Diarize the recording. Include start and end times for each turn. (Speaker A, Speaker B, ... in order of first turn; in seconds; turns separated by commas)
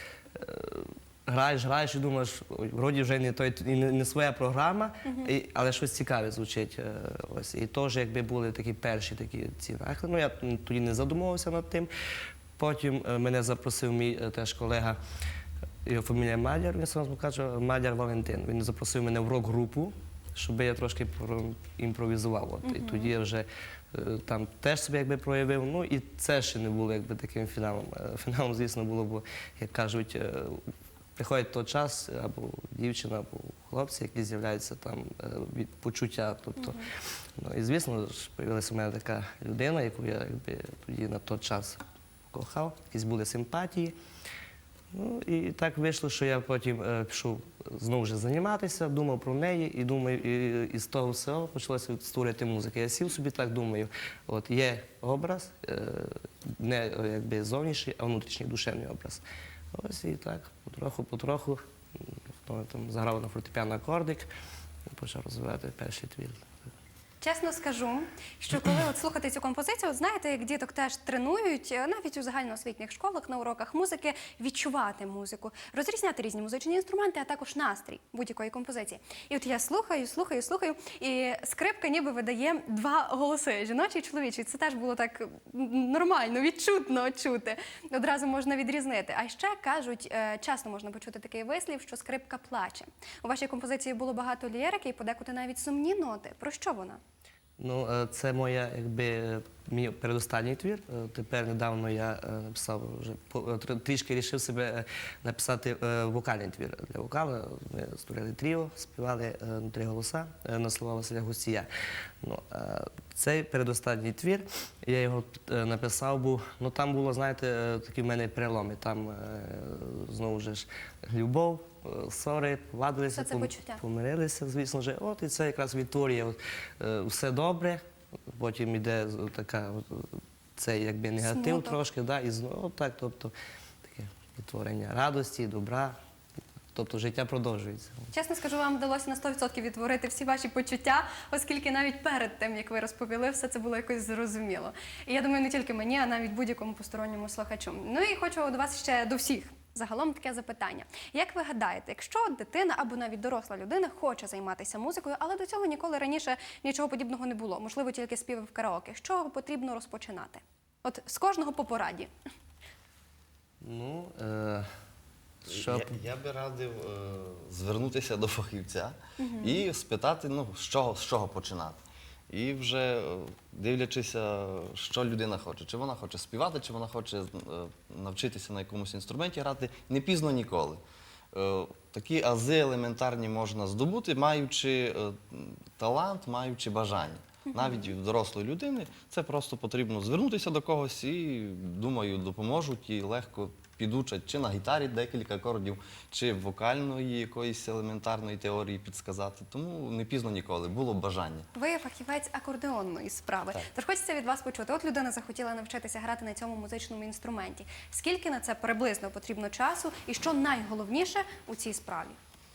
Speaker A: 0.4-11.9, Speaker B: 5.0-5.3, Speaker A: 12.6-15.0, Speaker A: 15.8-30.6, Speaker B: 22.6-23.1, Speaker A: 31.2-36.8, Speaker A: 37.4-41.8, Speaker A: 42.3-44.0, Speaker A: 44.9-59.2, Speaker A: 59.7-64.3, Speaker A: 64.9-66.5, Speaker B: 67.2-97.0, Speaker A: 97.6-111.7, Speaker A: 112.2-127.8, Speaker B: 123.1-123.8, Speaker A: 128.3-136.0, Speaker B: 131.2-131.8, Speaker A: 136.7-138.1, Speaker B: 138.1-162.1, Speaker A: 163.6-164.7, Speaker A: 165.4-165.9, Speaker C: 165.5-180.8, Speaker B: 169.2-169.6, Speaker C: 181.3-201.5, Speaker B: 187.5-187.8, Speaker B: 201.6-212.2